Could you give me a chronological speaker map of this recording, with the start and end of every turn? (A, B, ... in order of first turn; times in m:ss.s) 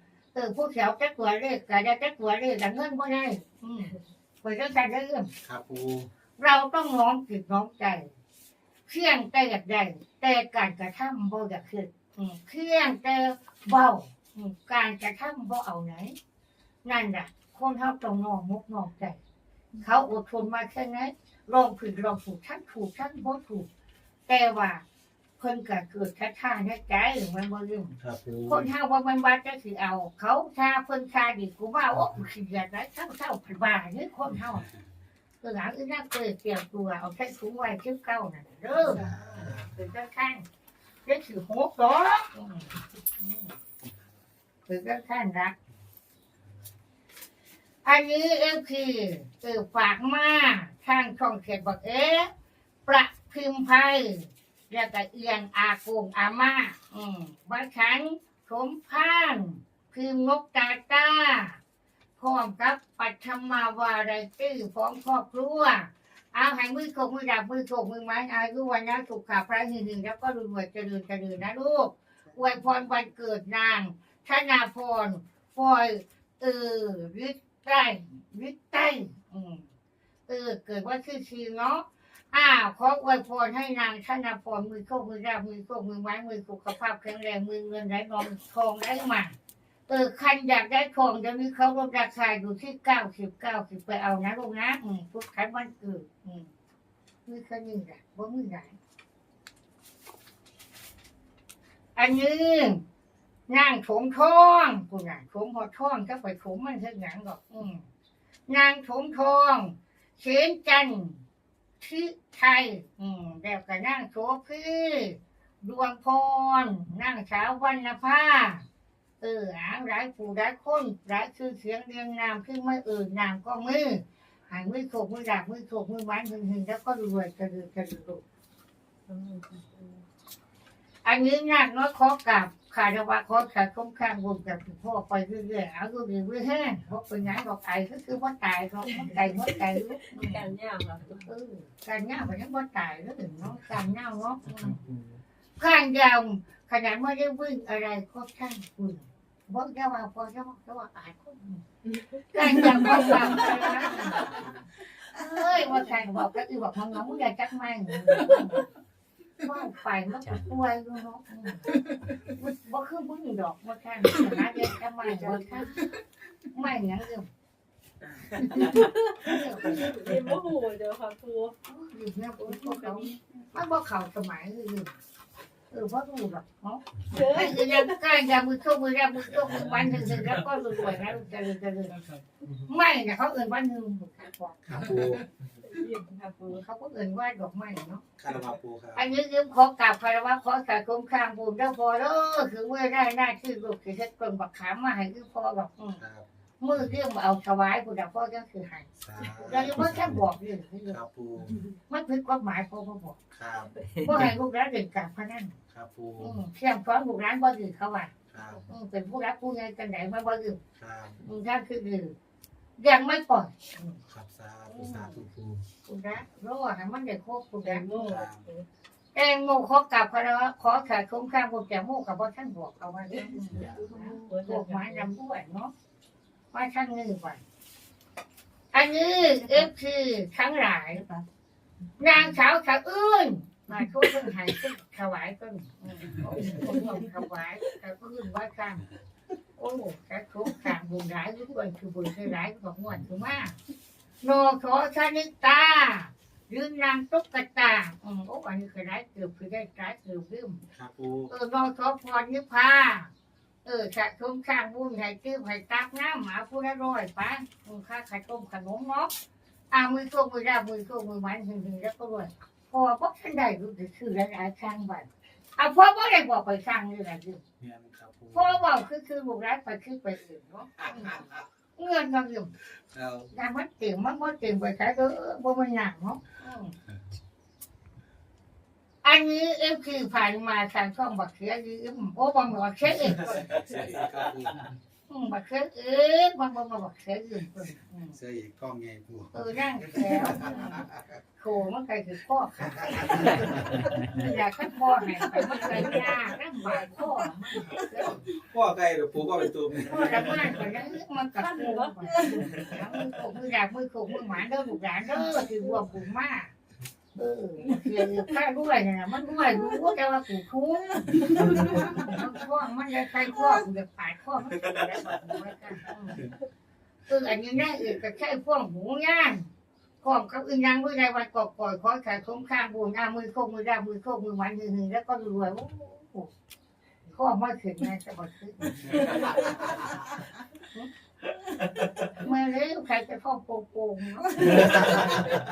0:00.3-0:05.3 A
0:05.4-0:06.1 B
0:06.4-0:08.1 A
0:08.9-0:16.2 A
0:16.8-0:19.2 A
0:19.8-0:23.7 A
0:24.3-0:24.8 A
0:25.4-0:28.0 A
0:28.0-0:28.7 B
0:28.5-0:34.7 A
0:31.9-0:32.2 B
0:35.4-0:39.1 A
0:38.9-0:39.8 B
0:39.7-0:40.4 A
0:41.1-0:43.5 A
0:44.7-0:45.6 A
0:47.8-0:52.3 A
0:52.9-1:01.6 A
1:02.2-1:19.7 A
1:20.3-1:29.4 A
1:29.9-1:36.5 A
1:37.3-1:38.8 A
1:42.0-1:42.8 A
1:43.5-1:47.9 A
1:48.5-1:51.2 A
1:51.8-1:58.6 A
1:59.2-2:08.2 A
2:09.1-2:10.0 C
2:11.0-2:20.4 A
2:20.2-2:21.2 C
2:21.2-2:24.8 A
2:25.6-2:31.6 A
2:32.3-2:34.4 A
2:32.5-2:33.6 C
2:34.1-2:34.5 B
2:35.1-2:38.6 A
2:39.4-2:41.7 A
2:42.4-2:45.8 A
2:45.1-2:45.8 C
2:46.5-2:47.3 A
2:48.4-2:51.6 C
2:49.2-2:49.8 A
2:51.7-2:54.9 A
2:52.5-2:53.2 C
2:55.7-3:02.0 A
2:57.1-2:58.0 C
3:02.7-3:04.6 A
3:04.7-3:05.3 B
3:05.6-3:06.6 C
3:06.5-3:08.0 A
3:08.2-3:09.1 B
3:09.0-3:16.0 A
3:16.0-3:16.3 B
3:16.6-3:21.0 A
3:19.0-3:20.3 B
3:20.9-3:21.6 B
3:21.9-3:23.2 A
3:23.3-3:23.9 B
3:24.0-3:25.6 A
3:25.7-3:26.4 B
3:26.2-3:28.1 A
3:28.3-3:28.7 B
3:28.7-3:30.6 A
3:30.8-3:31.2 B
3:31.2-3:32.1 A
3:32.8-3:34.0 A
3:34.1-3:35.7 B
3:34.7-3:35.3 A
3:35.8-3:37.8 A
3:37.6-3:38.6 C
3:38.0-3:38.5 B
3:39.2-3:45.7 A
3:43.1-3:45.1 C
3:46.5-3:47.4 A
3:48.7-3:51.0 A
3:52.0-3:58.9 A
3:59.6-4:03.6 A
4:04.2-4:10.6 A
4:10.7-4:11.3 B
4:11.3-4:13.1 A
4:13.6-4:19.1 A
4:19.7-4:27.4 A
4:27.6-4:28.6 B
4:28.3-4:32.5 A
4:30.9-4:31.4 B
4:32.9-4:33.3 B
4:33.3-4:36.8 A
4:39.0-4:43.3 A
4:43.2-4:44.7 B
4:45.1-4:48.2 A
4:48.1-4:51.0 B
4:49.3-4:50.8 A
4:51.4-4:58.2 A
4:52.7-4:53.4 B
4:55.3-4:57.7 C
4:58.3-5:00.6 B
4:59.9-5:06.5 A
5:01.4-5:02.8 C
5:07.2-5:16.2 A
5:17.1-5:19.5 A
5:20.0-5:26.3 A
5:27.1-5:29.3 A
5:28.9-5:29.3 B
5:29.2-5:29.4 C
5:32.2-5:35.0 A